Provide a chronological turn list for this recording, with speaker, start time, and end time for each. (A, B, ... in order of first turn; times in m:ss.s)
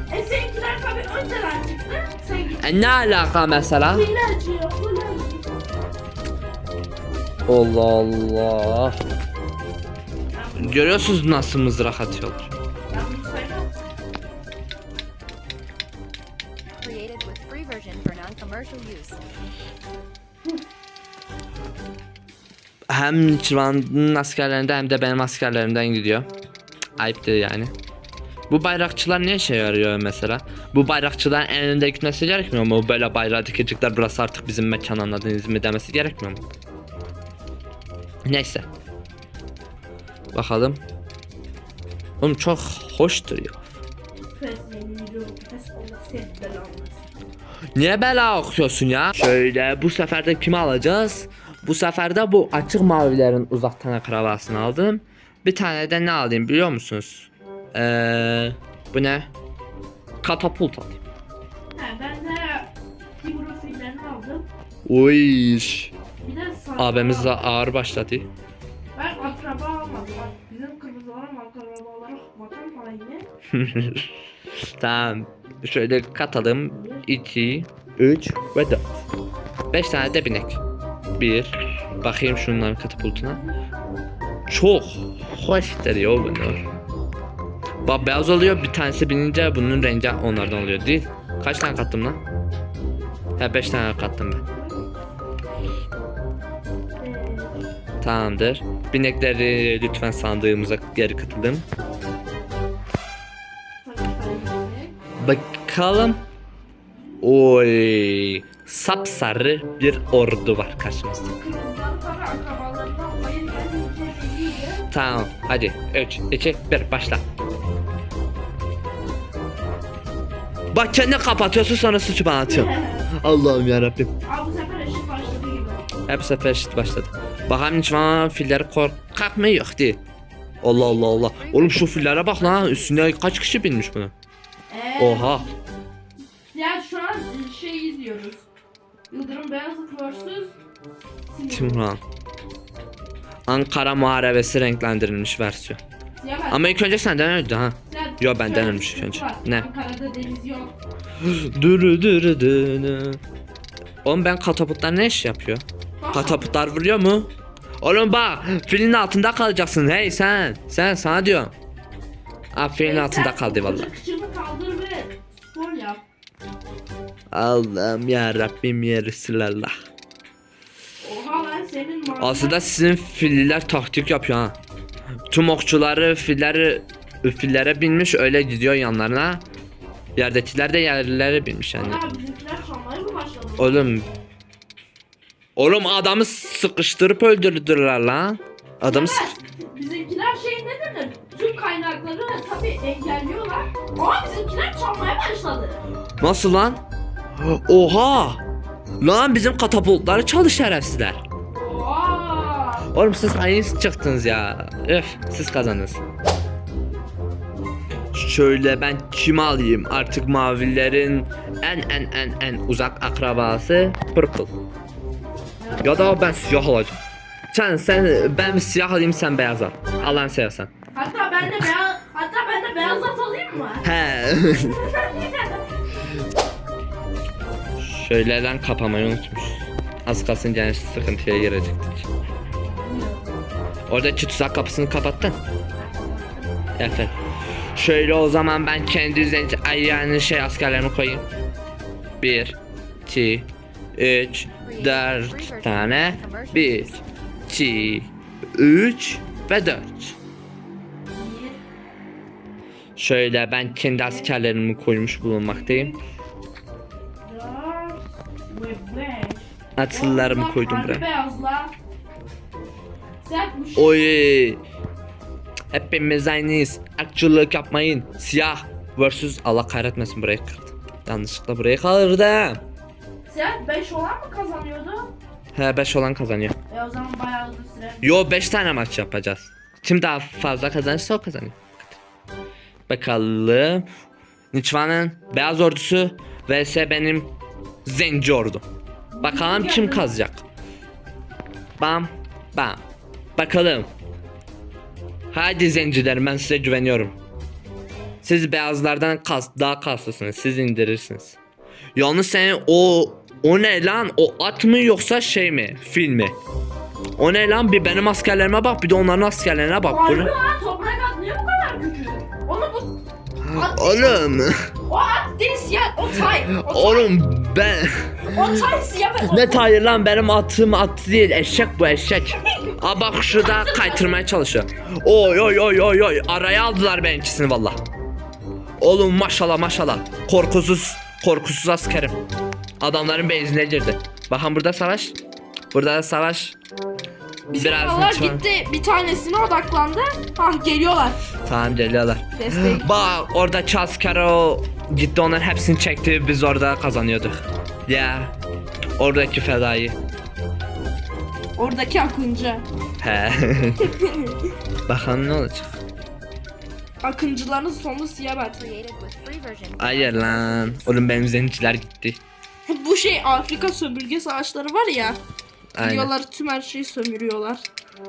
0:00.1-0:02.9 A
0:02.6-0:04.1 B
0:03.9-0:05.5 A
0:07.5-0:09.0 B
0:10.3-0:11.2 A
0:10.6-0:12.5 B
0:12.9-0:13.7 A
0:16.7-0:19.2 C
0:22.9-0:26.3 B
0:27.0-0:27.7 B
0:28.5-0:36.4 B
0:38.2-0:38.7 B
0:40.3-0:40.8 B
0:42.2-0:43.6 B
0:44.4-0:47.1 A
0:47.8-0:59.3 B
1:00.2-1:01.0 B
1:01.8-1:04.5 A
1:04.9-1:05.9 B
1:06.2-1:07.6 A
1:06.8-1:08.3 B
1:09.0-1:13.3 A
1:13.5-1:14.1 B
1:14.8-1:18.9 B
1:16.7-1:17.1 A
1:19.7-1:20.6 B
1:21.2-1:23.4 B
1:23.1-1:23.6 A
1:24.5-1:26.6 B
1:27.8-1:32.2 B
1:33.4-1:34.4 B
1:34.5-1:34.9 A
1:37.0-1:37.6 A
1:38.0-1:41.7 B
1:43.8-1:44.9 A
1:45.2-1:46.2 B
1:47.2-1:51.3 B
1:51.4-1:54.8 A
1:54.9-1:57.2 B
2:00.7-2:04.1 B
2:02.5-2:03.1 A
2:04.3-2:05.8 A
2:06.1-2:10.0 B
2:10.6-2:14.1 B
2:10.7-2:13.2 C
2:14.7-2:15.5 A
2:15.0-2:15.5 B
2:16.5-2:18.4 A
2:19.1-2:20.6 A
2:21.3-2:21.9 A
2:21.5-2:22.0 B
2:23.5-2:25.8 B
2:26.2-2:26.8 A
2:26.5-2:29.7 B
2:27.9-2:30.8 A
2:31.2-2:33.2 B
2:34.0-2:37.3 B
2:36.0-2:36.6 A
2:37.8-2:41.5 B
2:42.6-2:43.9 B
2:42.8-2:46.0 A
2:47.3-2:49.7 B
2:51.0-2:52.6 A
2:52.2-2:54.6 B
2:55.3-2:59.4 B
3:00.2-3:02.0 B
3:01.8-3:03.9 A
3:03.6-3:04.1 B
3:05.6-3:09.4 B
3:08.9-3:15.8 A
3:16.2-3:16.8 B
3:17.4-3:18.4 B
3:19.0-3:21.2 B
3:21.5-3:22.9 A
3:22.9-3:26.0 B
3:28.1-3:34.5 B
3:35.6-3:36.3 A
3:35.8-3:37.0 B
3:37.5-3:40.7 B
3:40.9-3:43.8 A
3:43.8-3:44.8 B
3:44.6-3:45.7 A
3:47.8-3:52.1 B
3:52.6-3:53.4 A
3:53.9-3:55.4 B
3:55.8-3:56.5 A
3:56.8-3:57.1 B
3:57.7-4:01.3 B
4:02.2-4:10.2 B
4:04.6-4:07.0 C
4:11.1-4:11.6 A
4:13.0-4:16.0 B
4:14.0-4:14.3 A
4:15.5-4:16.1 A
4:17.2-4:21.7 A
4:19.8-4:21.0 B
4:23.2-4:24.0 A
4:23.8-4:24.6 B
4:25.7-4:32.6 B
4:33.3-4:35.1 A
4:35.5-4:36.6 B
4:36.7-4:38.3 A
4:38.0-4:42.0 B
4:42.9-4:43.9 B
4:44.5-4:47.3 B
4:47.8-4:48.7 B
4:49.1-4:50.1 A
4:49.2-4:50.4 B
4:51.8-4:52.8 B
4:53.4-4:53.9 B
4:55.3-4:57.2 B
4:58.2-5:01.4 B
5:02.0-5:06.4 B
5:07.2-5:10.3 B
5:09.9-5:13.0 A
5:13.4-5:14.7 B
5:13.5-5:14.2 A
5:14.9-5:17.2 A
5:16.6-5:18.6 B
5:18.3-5:19.6 A
5:19.2-5:27.8 B
5:22.4-5:24.2 A
5:28.8-5:32.2 B
5:32.8-5:35.2 B
5:35.7-5:36.6 B
5:37.5-5:41.2 A
5:37.5-5:38.4 B
5:41.4-5:48.3 B
5:42.3-5:42.9 A
5:49.0-5:50.0 B
5:51.6-5:52.6 A
5:53.0-5:53.9 B
5:53.9-5:54.4 A
5:54.9-5:55.8 B
5:57.0-5:58.6 A
5:58.5-6:01.1 C
5:59.8-6:02.2 B
6:02.7-6:05.2 A
6:05.8-6:06.1 B
6:05.8-6:07.6 A